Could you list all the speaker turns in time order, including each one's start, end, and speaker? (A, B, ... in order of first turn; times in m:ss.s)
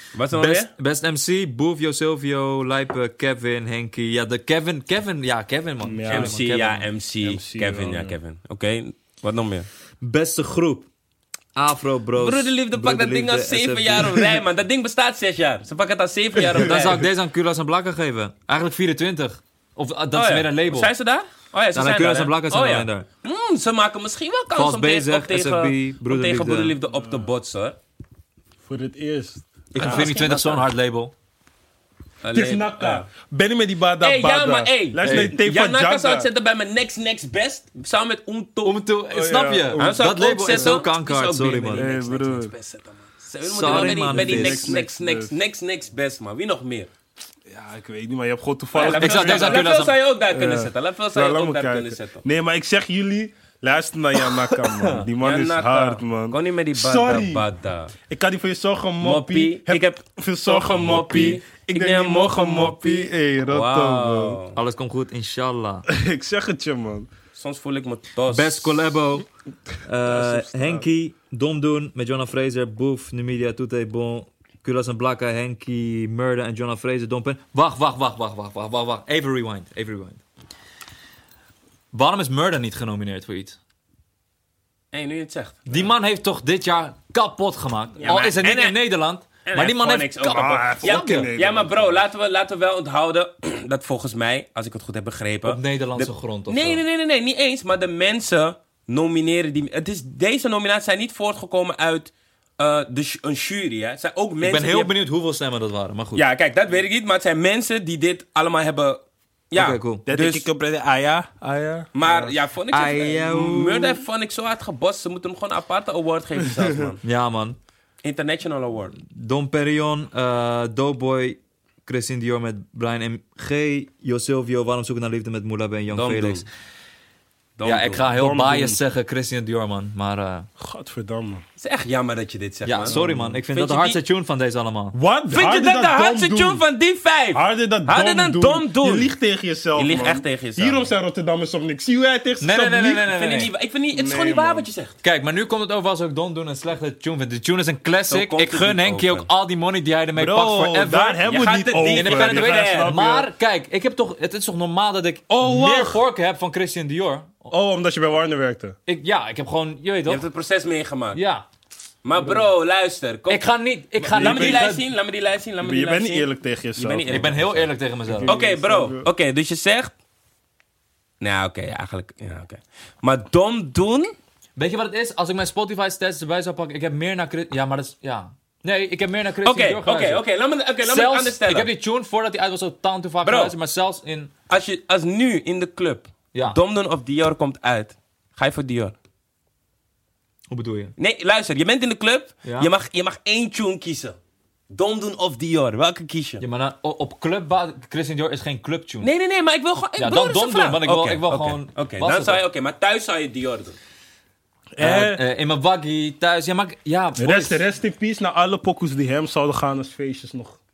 0:00.1-0:00.7 A
0:00.3-0:06.9 B
0:05.8-0:06.4 C
0:06.1-0:09.7 A
0:07.2-0:08.2 C
0:10.0-0:10.9 B
0:11.6-0:14.2 B
0:12.2-0:17.0 A
0:16.4-0:17.1 C
0:16.5-0:20.9 B
0:20.1-0:27.8 A
0:21.7-0:23.1 B
0:24.6-0:26.8 B
0:26.9-0:27.3 C
0:28.6-0:30.1 C
0:29.7-0:31.1 B
0:29.8-0:30.7 A
0:32.2-0:33.1 A
0:32.3-0:36.3 C
0:34.0-0:38.8 A
0:35.0-0:35.3 B
0:38.6-0:41.8 B
0:39.1-0:40.8 C
0:39.8-0:46.9 A
0:41.7-0:42.5 C
0:43.5-0:44.8 B
0:43.6-0:45.3 C
0:47.5-0:49.7 C
0:48.7-0:52.2 A
0:48.8-0:50.0 B
0:50.3-0:57.4 C
0:54.7-0:55.0 B
0:55.2-0:57.9 A
0:58.1-1:04.4 C
0:59.0-1:04.6 A
1:00.8-1:01.3 B
1:04.6-1:05.9 B
1:05.9-1:07.1 C
1:07.4-1:08.9 A
1:08.3-1:09.3 B
1:09.8-1:20.2 B
1:10.0-1:10.9 C
1:21.9-1:23.6 B
1:24.9-1:25.9 A
1:25.7-1:31.3 B
1:28.0-1:28.8 A
1:29.4-1:44.9 A
1:30.3-1:32.0 C
1:35.4-1:36.8 B
1:44.4-1:46.2 B
1:46.2-1:50.5 A
1:49.5-1:50.0 B
1:50.0-1:52.4 C
1:51.9-1:57.0 A
1:52.7-1:54.0 B
1:57.0-1:57.6 B
1:58.0-1:59.0 A
1:59.0-2:06.4 B
2:05.9-2:06.4 A
2:07.6-2:08.1 A
2:07.6-2:10.5 B
2:08.1-2:08.8 C
2:10.6-2:11.4 C
2:11.6-2:13.0 A
2:12.6-2:15.0 B
2:12.8-2:13.4 C
2:13.5-2:14.0 A
2:14.9-2:16.6 C
2:15.3-2:19.1 A
2:17.3-2:23.1 C
2:19.8-2:20.9 A
2:22.4-2:23.5 B
2:23.1-2:25.0 A
2:23.9-2:24.7 C
2:25.0-2:37.5 B
2:28.1-2:29.3 A
2:30.2-2:33.3 C
2:31.2-2:32.9 A
2:35.3-2:36.0 C
2:37.5-2:38.8 C
2:38.9-2:40.2 B
2:40.1-2:41.2 A
2:41.2-2:41.4 B
2:42.0-2:43.4 A
2:43.3-2:44.8 B
2:44.0-2:44.8 C
2:44.1-2:47.7 A
2:45.6-2:47.3 C
2:47.1-2:48.4 B
2:48.1-2:49.1 C
2:48.2-2:49.9 A
2:51.2-2:54.1 A
2:54.6-3:00.2 B
2:59.4-3:01.7 A
3:00.8-3:04.3 B
3:03.2-3:03.6 A
3:04.5-3:09.0 A
3:10.5-3:10.9 B
3:11.0-3:14.2 A
3:12.4-3:12.7 B
3:14.7-3:16.4 A
3:16.4-3:19.1 B
3:19.0-3:23.8 A
3:20.0-3:22.4 B
3:24.8-3:25.2 C
3:24.8-3:27.6 B
3:27.2-3:30.6 C